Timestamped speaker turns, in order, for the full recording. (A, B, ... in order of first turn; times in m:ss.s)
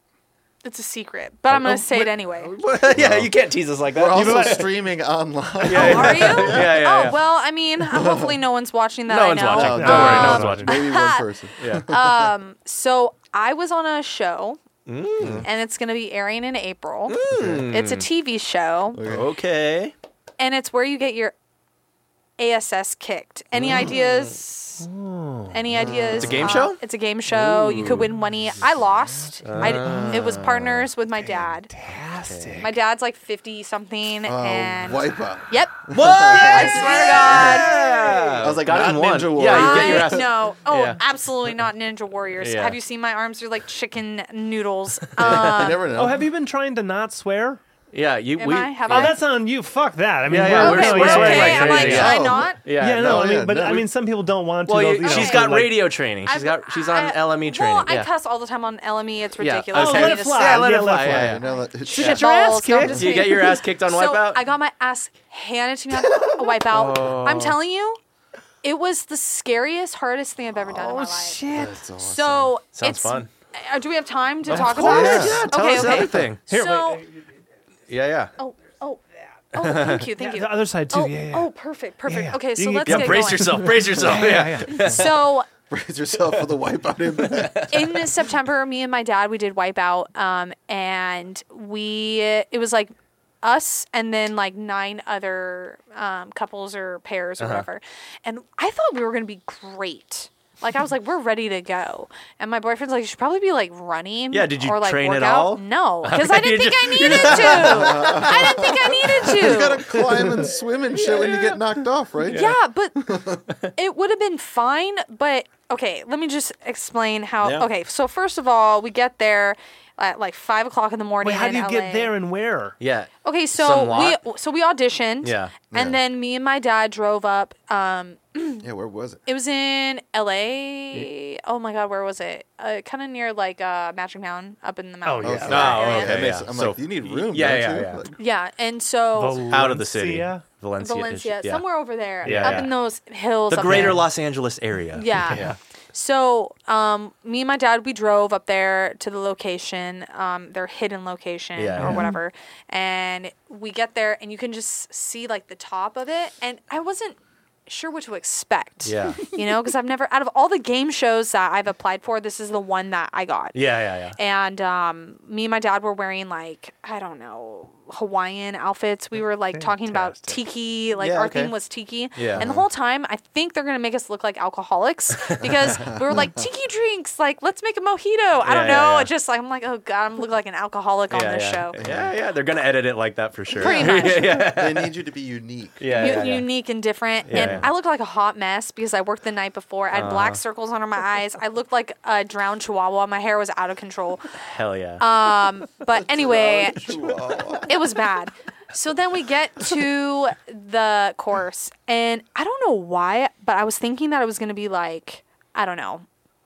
0:00.6-0:02.5 A
0:01.5-0:04.7 B
0:02.9-0:03.3 C
0:03.9-0:06.8 C
0:04.1-0:04.6 D
0:05.6-0:07.2 B
0:05.7-0:14.6 A
0:07.8-0:08.4 C
0:09.1-0:10.7 B
0:09.5-0:12.2 C
0:09.5-0:10.7 D
0:11.6-0:11.9 B
0:14.8-0:15.5 B
0:15.2-0:15.5 C
0:15.4-0:17.2 A
0:17.1-0:18.0 B
0:17.3-0:17.6 C
0:17.7-0:19.0 A
0:18.9-0:19.3 C
0:19.0-0:19.9 B
0:20.4-0:21.3 A
0:22.4-0:24.8 A
0:23.5-0:24.4 B
0:24.8-0:25.6 D
0:25.5-0:31.7 A
0:25.7-0:26.6 C
0:26.1-0:26.8 B
0:27.5-0:28.1 C
0:27.7-0:28.1 B
0:29.4-0:30.9 B
0:29.8-0:30.3 C
0:31.7-0:32.7 D
0:32.2-0:32.6 B
0:32.6-0:38.3 A
0:34.2-0:37.8 C
0:35.9-0:41.0 B
0:38.4-0:40.2 C
0:39.4-0:45.8 A
0:42.4-0:42.8 B
0:45.2-0:46.3 C
0:45.2-0:45.8 B
0:45.9-0:47.6 D
0:47.9-0:49.2 B
0:48.4-0:49.2 A
0:48.9-0:52.2 D
0:50.3-0:53.8 B
0:50.5-0:52.6 A
0:51.8-0:53.9 C
0:52.8-0:55.7 D
0:54.6-0:58.1 B
0:55.0-0:55.5 A
0:56.2-1:00.7 A
0:59.4-1:01.4 B
0:59.7-1:03.3 D
1:01.0-1:02.2 C
1:01.9-1:08.0 A
1:01.9-1:04.4 B
1:06.1-1:06.6 C
1:06.6-1:07.6 B
1:08.6-1:11.4 A
1:10.7-1:11.8 D
1:11.5-1:12.5 C
1:12.0-1:17.1 A
1:12.7-1:13.3 B
1:14.5-1:15.9 D
1:14.5-1:16.4 B
1:14.7-1:15.5 C
1:16.5-1:17.0 D
1:17.9-1:18.3 B
1:18.4-1:23.7 A
1:19.6-1:20.1 B
1:20.2-1:21.5 D
1:22.0-1:25.0 D
1:22.8-1:25.2 B
1:24.0-1:24.3 C
1:24.6-1:25.5 A
1:25.7-1:27.9 C
1:27.2-1:28.0 B
1:27.7-1:49.9 A
1:37.4-1:37.6 B
1:44.3-1:50.4 B
1:47.1-1:53.4 C
1:51.1-1:51.4 B
1:52.2-1:52.5 B
1:52.3-1:53.0 A
1:53.8-2:02.1 A
2:01.2-2:02.8 D
2:02.8-2:04.2 B
2:03.2-2:08.6 A
2:05.2-2:05.5 B
2:05.7-2:06.0 C
2:08.6-2:09.2 C
2:09.2-2:16.3 A
2:15.0-2:15.8 D
2:15.2-2:18.2 C
2:15.4-2:18.0 B
2:18.2-2:19.5 A
2:19.2-2:20.4 D
2:19.5-2:21.6 B
2:20.8-2:24.1 A
2:22.2-2:22.7 D
2:22.2-2:22.7 B
2:23.5-2:25.6 B
2:23.6-2:24.0 D
2:24.9-2:43.6 A
2:25.1-2:25.6 D
2:31.6-2:32.1 B
2:31.8-2:32.2 D
2:38.8-2:39.3 B
2:43.5-2:44.2 B
2:44.2-3:01.8 A
2:49.5-2:50.4 D
2:51.0-2:51.5 B
2:52.1-2:52.5 B
2:52.4-2:52.6 C
2:55.4-2:56.5 C
2:58.4-2:59.1 B
3:01.1-3:04.9 B
3:01.8-3:02.1 C
3:03.6-3:04.4 A
3:03.6-3:06.4 C
3:05.8-3:06.5 B
3:05.9-3:14.4 A
3:07.3-3:07.7 B
3:07.3-3:07.6 C
3:09.9-3:10.4 B
3:14.4-3:15.0 B
3:15.0-3:17.0 A
3:15.9-3:18.0 C
3:17.6-3:26.0 A